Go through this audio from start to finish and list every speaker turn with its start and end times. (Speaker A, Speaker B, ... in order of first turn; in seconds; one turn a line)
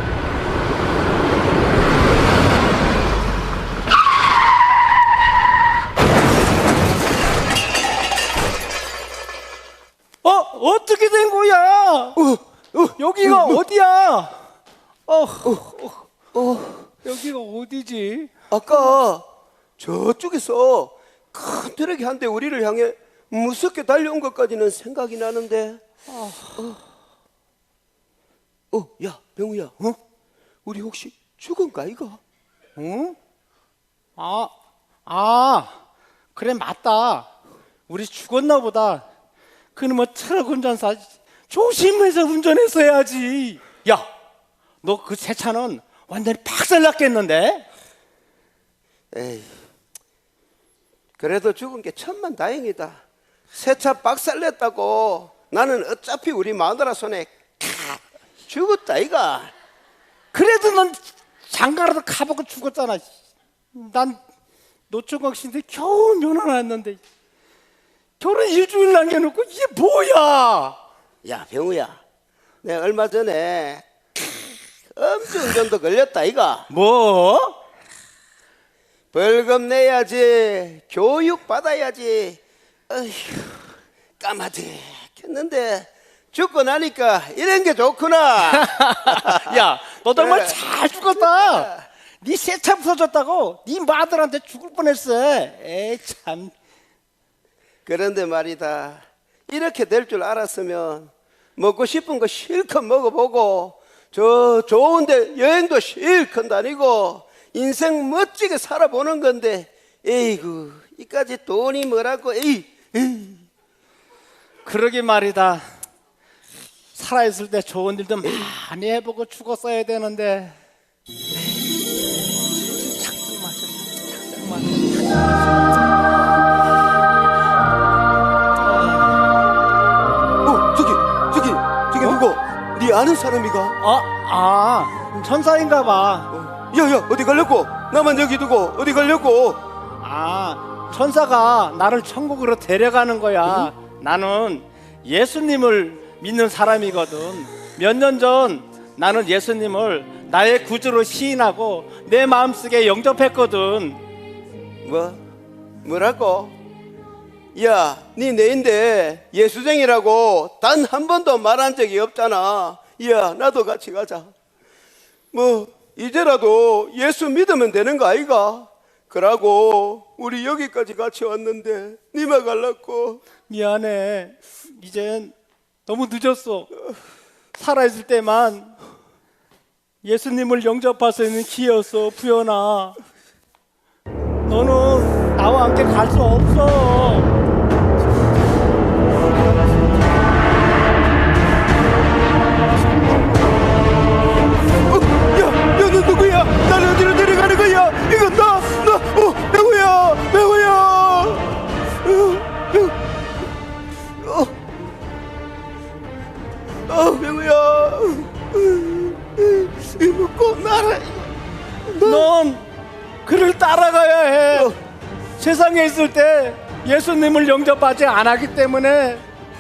Speaker A: 10.2-12.2
Speaker B: 12.2-13.6
Speaker A: 13.0-14.4
Speaker A: 15.1-16.1
Speaker B: 16.3-16.9
Speaker A: 17.0-18.9
Speaker B: 18.5-19.3
Speaker B: 19.8-25.8
Speaker A: 26.1-26.8
Speaker B: 28.7-29.8
Speaker B: 30.6-32.2
Speaker A: 32.8-33.2
Speaker A: 34.2-34.5
Speaker A: 35.1-35.8
Speaker A: 36.4-37.3
Speaker A: 37.9-39.0
Speaker A: 39.8-44.1
Speaker A: 44.8-47.7
Speaker B: 49.1-49.6
Speaker B: 51.2-53.0
Speaker B: 53.5-59.5
Speaker A: 60.3-63.1
Speaker A: 63.7-64.2
Speaker A: 64.9-67.0
Speaker A: 68.2-70.8
Speaker B: 71.2-72.0
Speaker B: 72.6-76.7
Speaker A: 76.7-77.6
Speaker B: 79.1-91.9
Speaker A: 88.5-96.5
Speaker B: 97.9-113.5
Speaker A: 114.7-115.7
Speaker A: 116.9-120.6
Speaker A: 122.6-125.0
Speaker A: 128.7-129.1
Speaker B: 130.4-133.8
Speaker A: 133.8-136.3
Speaker B: 136.3-139.6
Speaker A: 140.0-154.0
Speaker B: 143.4-143.7
Speaker B: 154.8-155.2
Speaker B: 155.8-156.5
Speaker B: 157.6-164.3
Speaker B: 165.3-173.2
Speaker A: 173.5-175.3
Speaker A: 175.9-176.7
Speaker A: 177.5-178.8
Speaker A: 180.0-183.0
Speaker A: 184.4-187.3
Speaker B: 194.9-203.0
Speaker B: 204.2-204.5
Speaker B: 206.9-211.3
Speaker B: 211.9-212.3
Speaker A: 212.0-212.7
Speaker A: 213.2-214.7
Speaker B: 214.5-214.8
Speaker A: 215.4-219.2